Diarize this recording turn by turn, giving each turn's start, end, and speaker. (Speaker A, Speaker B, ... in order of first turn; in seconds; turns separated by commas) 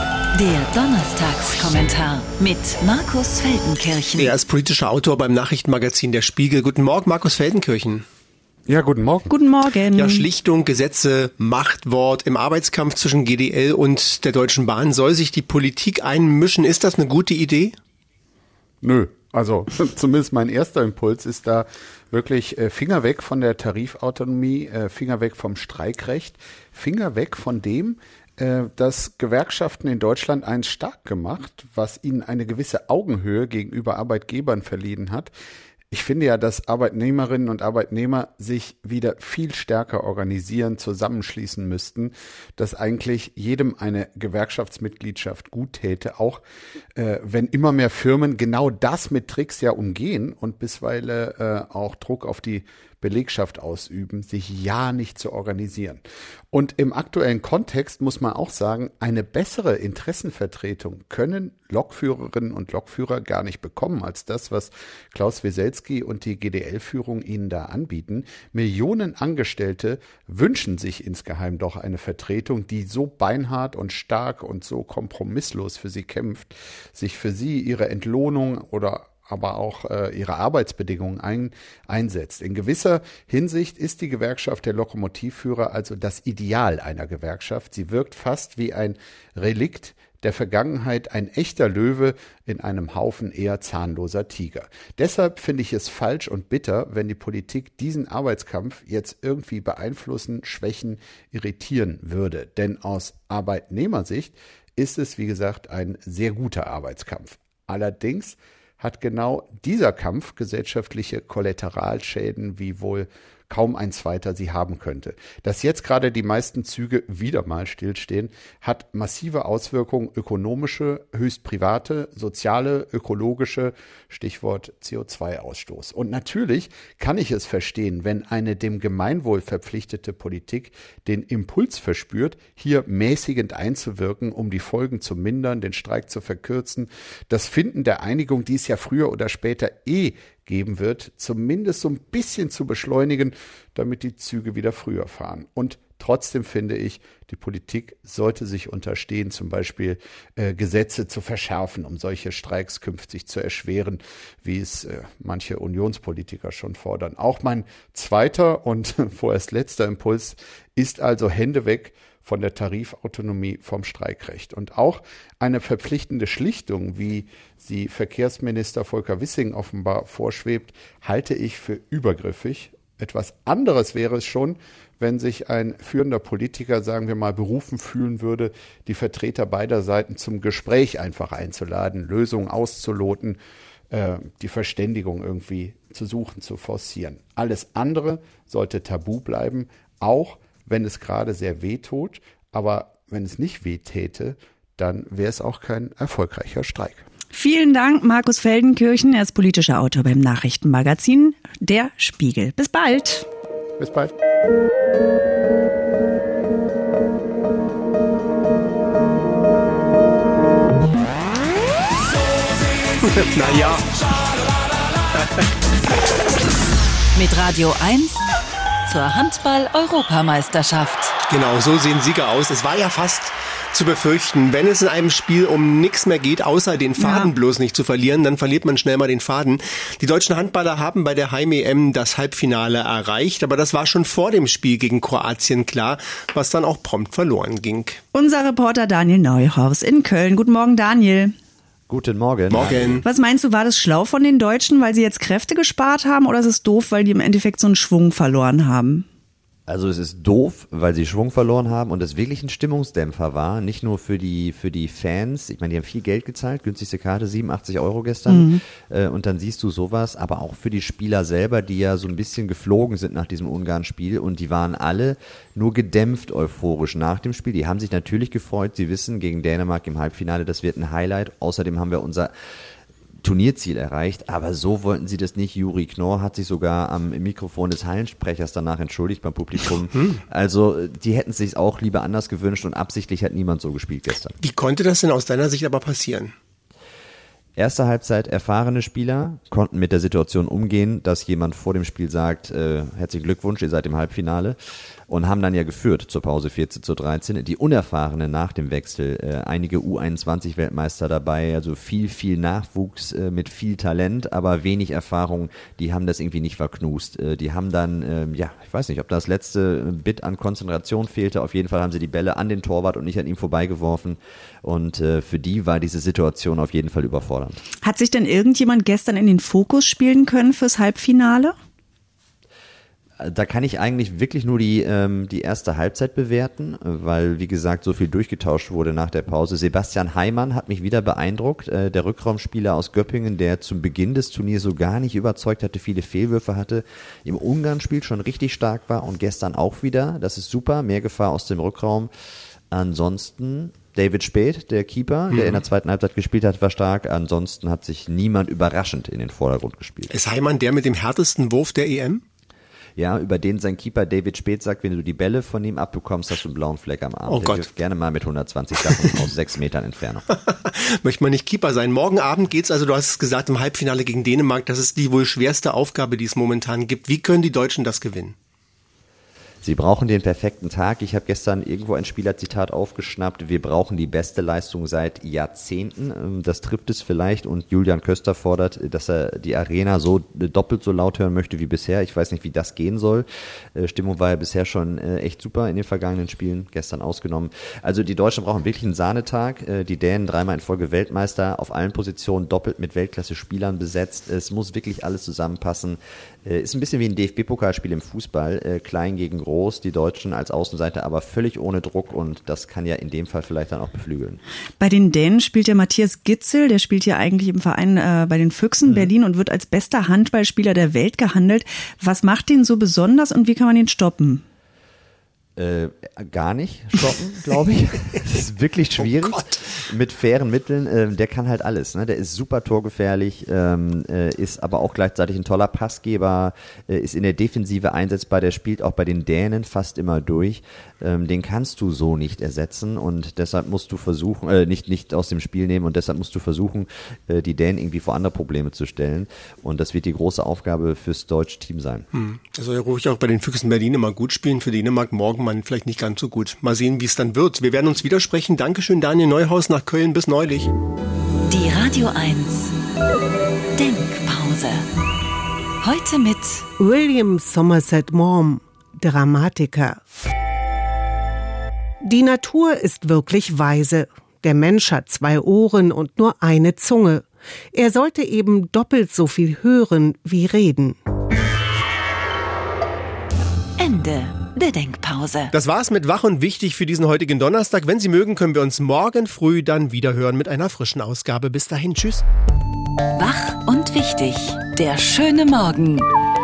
Speaker A: 0.3-4.3, Speaker B: 4.2-8.0, Speaker C: 8.7-9.3, Speaker D: 9.3-10.3, Speaker B: 9.9-17.8, Speaker C: 18.8-35.3, Speaker C: 35.9-46.4, Speaker C: 47.0-183.4, Speaker C: 183.9-197.1, Speaker D: 197.3-203.3, Speaker C: 203.8-204.1, Speaker B: 213.0-213.8, Speaker B: 215.2-215.4, Speaker A: 217.2-218.2, Speaker A: 218.8-221.1, Speaker B: 221.3-238.0, Speaker D: 227.0-227.3, Speaker D: 238.1-241.3, Speaker E: 241.9-243.0, Speaker B: 242.5-243.0, Speaker D: 243.0-249.1, Speaker E: 249.7-272.3, Speaker D: 258.3-258.6, Speaker E: 273.2-284.4, Speaker B: 284.4-286.3, Speaker E: 287.6-294.6, Speaker E: 295.1-317.6, Speaker D: 317.8-321.5, Speaker E: 323.2-342.1, Speaker E: 342.7-350.1, Speaker B: 345.3-345.6, Speaker B: 350.1-352.2, Speaker E: 353.0-360.2, Speaker B: 357.3-357.7, Speaker B: 358.8-359.2, Speaker B: 360.3-368.4, Speaker E: 369.6-404.4, Speaker D: 404.8-414.4, Speaker E: 408.9-409.1, Speaker E: 415.6-442.1, Speaker B: 442.1-450.7, Speaker A: 451.5-452.7, Speaker A: 453.8-454.9, Speaker A: 455.8-456.6, Speaker F: 456.8-460.0, Speaker F: 462.0-471.0, Speaker A: 473.8-475.5, Speaker B: 475.5-482.2, Speaker A: 483.1-486.1